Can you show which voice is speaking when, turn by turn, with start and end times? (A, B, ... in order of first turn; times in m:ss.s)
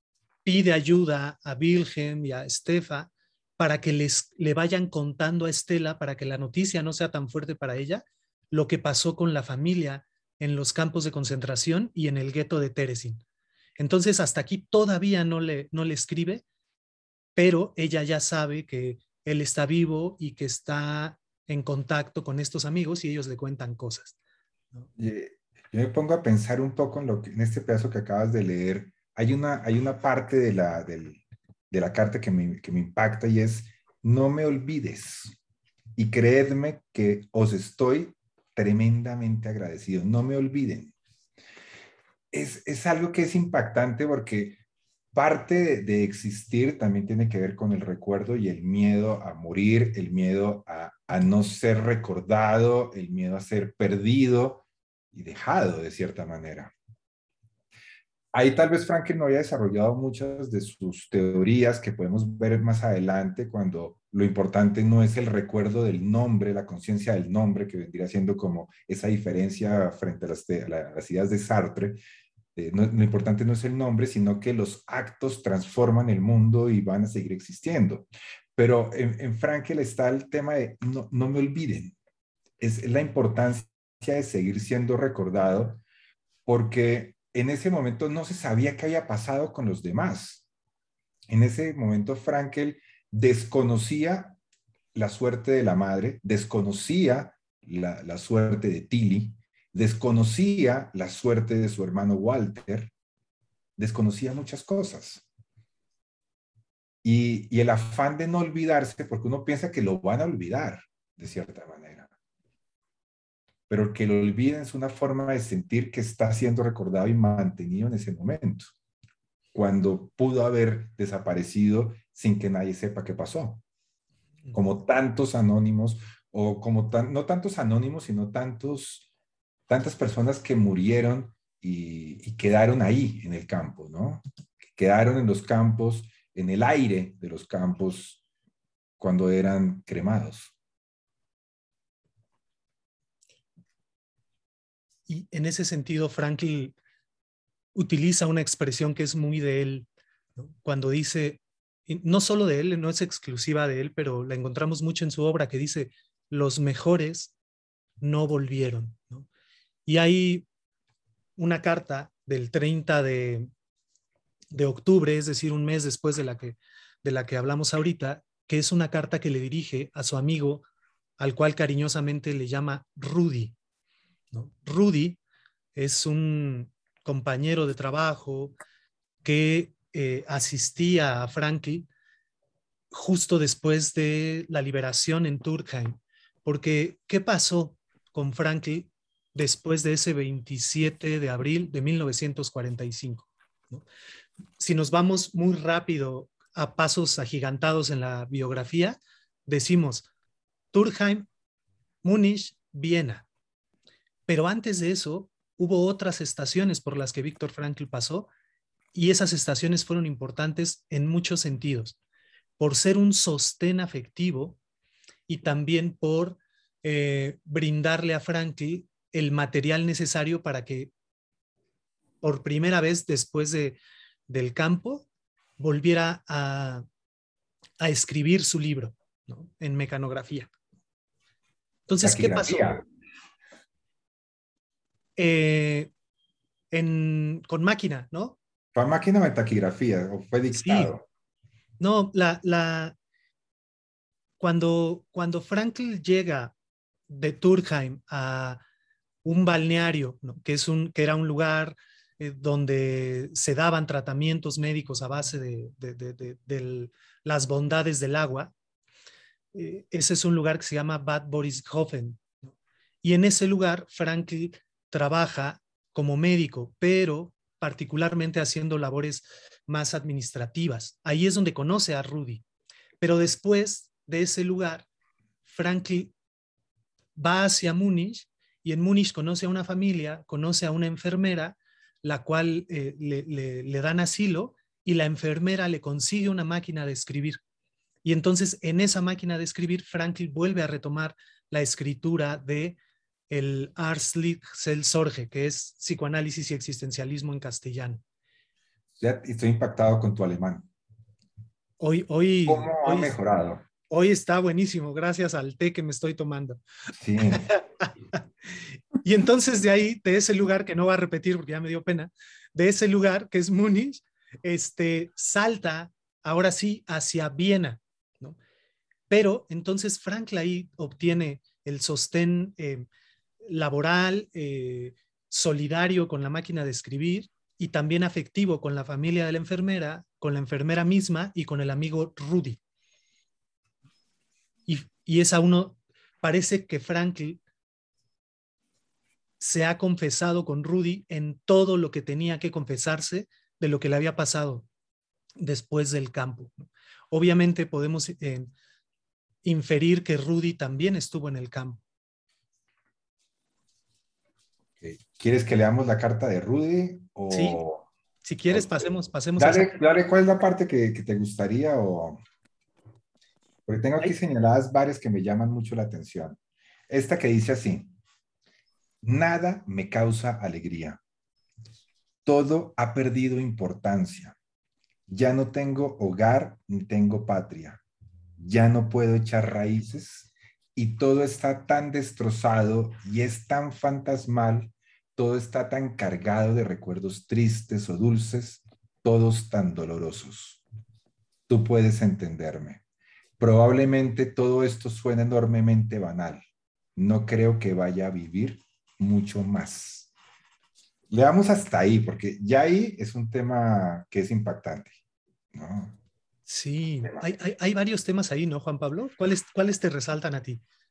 0:00.4-0:13.2 A
0:13.8-0:16.4 A
0:17.4-0:24.2 A
0:25.0-0:35.4 B
0:36.0-0:40.9 B
0:42.3-0:44.6 B
0:45.1-0:56.7 B
0:58.3-1:12.0 B
1:12.6-1:22.0 B
1:22.6-1:25.8 B
1:26.4-1:30.4 B
1:31.3-1:34.4 B
1:34.9-1:42.9 B
1:43.8-1:45.3 B
1:47.0-1:52.1 B
1:53.7-1:58.7 B
1:59.5-2:03.6 B
2:04.5-2:09.1 B
2:09.7-2:18.2 B
2:19.0-2:20.5 B
2:25.1-2:26.7 A
2:27.7-2:37.3 A
2:38.0-2:39.3 A
2:39.8-2:40.4 A
2:41.4-2:43.5 A
2:44.5-2:50.6 A
2:51.2-2:53.5 A
2:54.3-2:55.2 A
2:55.8-2:58.6 A
2:59.2-3:01.9 A
3:02.9-3:13.8 A
3:14.6-3:20.1 A
3:20.7-3:21.3 A
3:22.0-3:23.3 A
3:24.3-3:28.3 A
3:28.9-3:32.0 A
3:32.6-3:34.6 A
3:35.3-3:40.9 A
3:42.2-3:43.8 A
3:44.3-3:45.1 A
3:45.6-3:46.8 A
3:47.8-3:50.5 A
3:51.9-3:52.8 A
3:52.0-3:52.8 B
3:55.2-3:55.9 A
3:56.7-3:58.4 A
3:58.7-4:01.0 B
4:00.5-4:00.9 A
4:01.8-4:03.0 A
4:04.4-4:06.5 A
4:07.1-4:08.6 A
4:09.2-4:18.5 A
4:19.5-4:32.4 A
4:33.0-4:34.9 A
4:35.4-4:36.1 A
4:37.2-4:47.4 A
4:48.0-4:52.8 A
4:53.3-4:58.0 A
4:59.0-5:00.7 B
5:01.8-5:03.1 A
5:02.5-5:03.6 B
5:03.9-5:06.6 A
5:07.0-5:07.4 B
5:07.3-5:08.2 A
5:09.0-5:18.4 A
5:19.1-5:22.9 A
5:23.4-5:32.6 A
5:34.7-5:37.4 A
5:39.4-5:44.7 A
5:45.4-5:48.5 A
5:49.4-5:51.8 A
5:54.8-5:57.9 B
5:57.3-5:57.6 A
5:58.2-5:59.8 A
5:58.5-6:02.2 B
6:03.6-6:06.4 B
6:06.9-6:07.9 B
6:09.0-6:11.0 B
6:12.2-6:14.4 B
6:15.1-6:17.8 B
6:18.4-6:30.6 B
6:31.5-6:32.8 B
6:33.4-6:36.4 B
6:37.0-6:40.1 B
6:41.1-6:45.0 B
6:45.5-6:46.0 B
6:46.5-6:50.6 A